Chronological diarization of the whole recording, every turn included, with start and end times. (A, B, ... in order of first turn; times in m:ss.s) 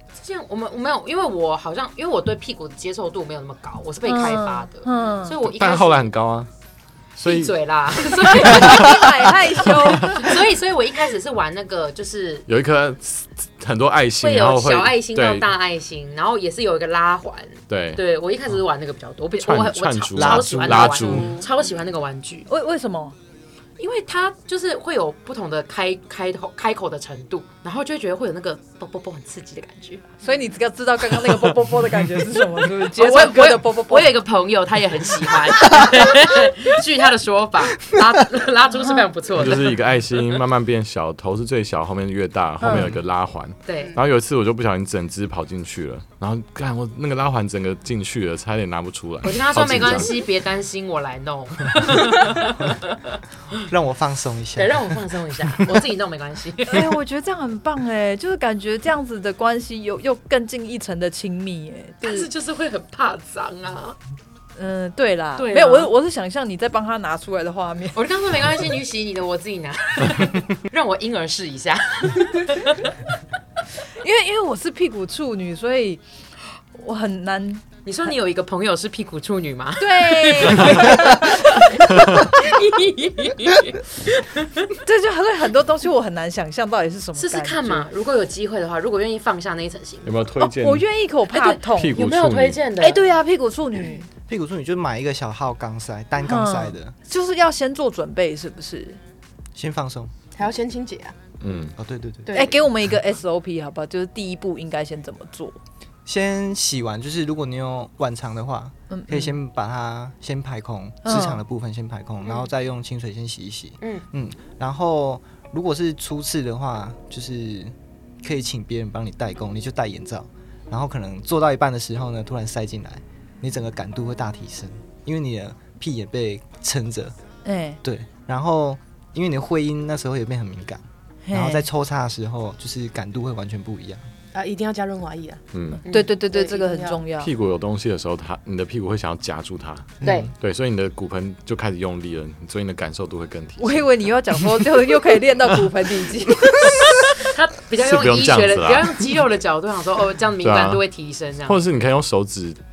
0:00.1-0:06.1 A
0:04.0-0:05.3 B
0:05.4-0:06.5 C
0:07.2-0:09.1 C
0:07.2-0:12.4 A
0:08.5-0:10.3 B
0:09.8-0:10.3 C
0:12.5-0:15.5 C
0:14.2-0:22.5 A
0:17.7-0:18.0 C
0:19.4-0:21.4 C
0:20.2-0:21.2 D
0:21.0-0:21.6 E
0:22.5-0:23.1 B
0:23.8-0:30.2 A
0:30.2-0:34.2 B
0:33.0-0:39.8 A
0:39.3-0:50.2 C
0:42.6-0:42.9 B
0:43.6-0:44.0 A
0:49.2-0:53.2 A
0:53.6-0:55.0 D
0:54.6-0:56.9 A
0:56.7-1:02.3 B
1:02.0-1:04.0 A
1:04.6-1:08.0 B
1:05.4-1:05.9 A
1:07.9-1:12.9 A
1:14.0-1:16.0 B
1:16.7-1:17.6 B
1:17.8-1:24.7 A
1:19.8-1:22.3 B
1:21.9-1:22.2 C
1:24.8-1:27.9 B
1:27.2-1:30.1 A
1:30.0-1:30.8 C
1:30.4-1:32.0 B
1:31.3-1:33.0 A
1:31.7-1:32.6 C
1:32.8-1:34.1 B
1:34.3-1:36.9 D
1:36.2-1:39.0 B
1:39.5-1:40.1 D
1:40.4-1:41.2 E
1:41.4-1:41.8 C
1:41.8-1:42.5 D
1:42.2-1:42.6 E
1:42.3-1:45.6 B
1:46.0-2:07.1 D
1:48.9-1:49.4 B
1:51.0-1:51.4 B
2:07.4-2:07.8 B
2:07.8-2:14.0 D
2:11.2-2:11.7 B
2:14.3-2:15.4 E
2:15.5-2:15.8 C
2:15.8-2:16.1 A
2:15.8-2:17.3 B
2:16.3-2:17.0 E
2:17.1-2:23.8 C
2:20.0-2:20.3 D
2:20.0-2:20.3 A
2:23.6-2:27.1 B
2:27.2-2:31.6 A
2:27.8-2:29.1 C
2:30.4-2:30.8 C
2:31.4-2:32.6 C